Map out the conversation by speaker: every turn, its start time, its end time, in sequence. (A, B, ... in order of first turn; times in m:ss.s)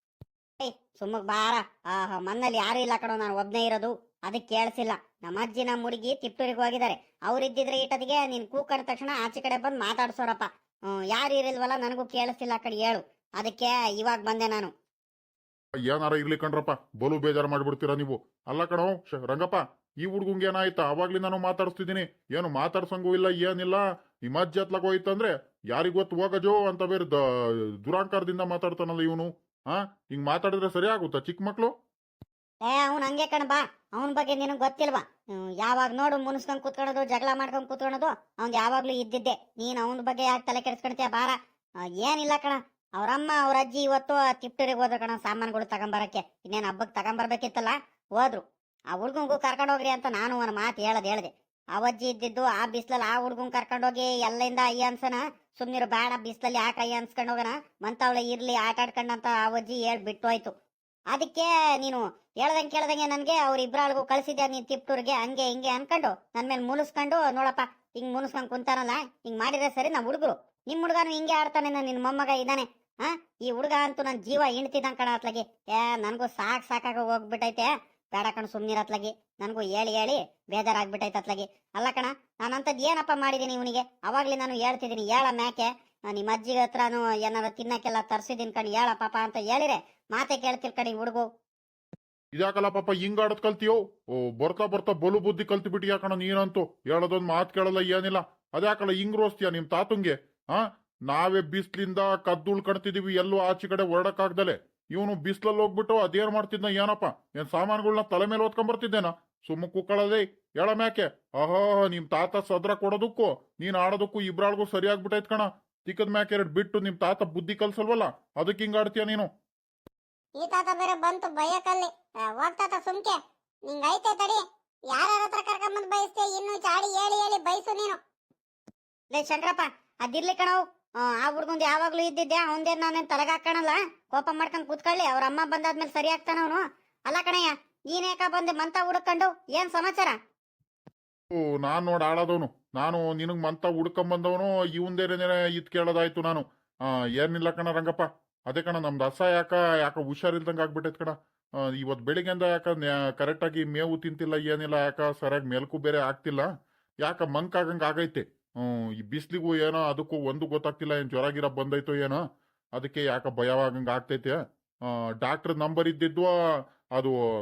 0:00.6-0:10.5 A
0:11.0-0:14.7 A
0:15.8-0:31.7 B
0:32.6-0:41.4 A
0:42.0-1:00.5 A
1:01.1-1:31.2 A
1:32.3-1:59.3 B
2:00.4-2:08.0 C
2:09.1-2:20.2 A
2:21.3-2:31.1 B
2:31.6-2:36.5 B
2:37.0-2:42.2 B
2:42.8-2:44.4 B
2:44.9-2:46.3 B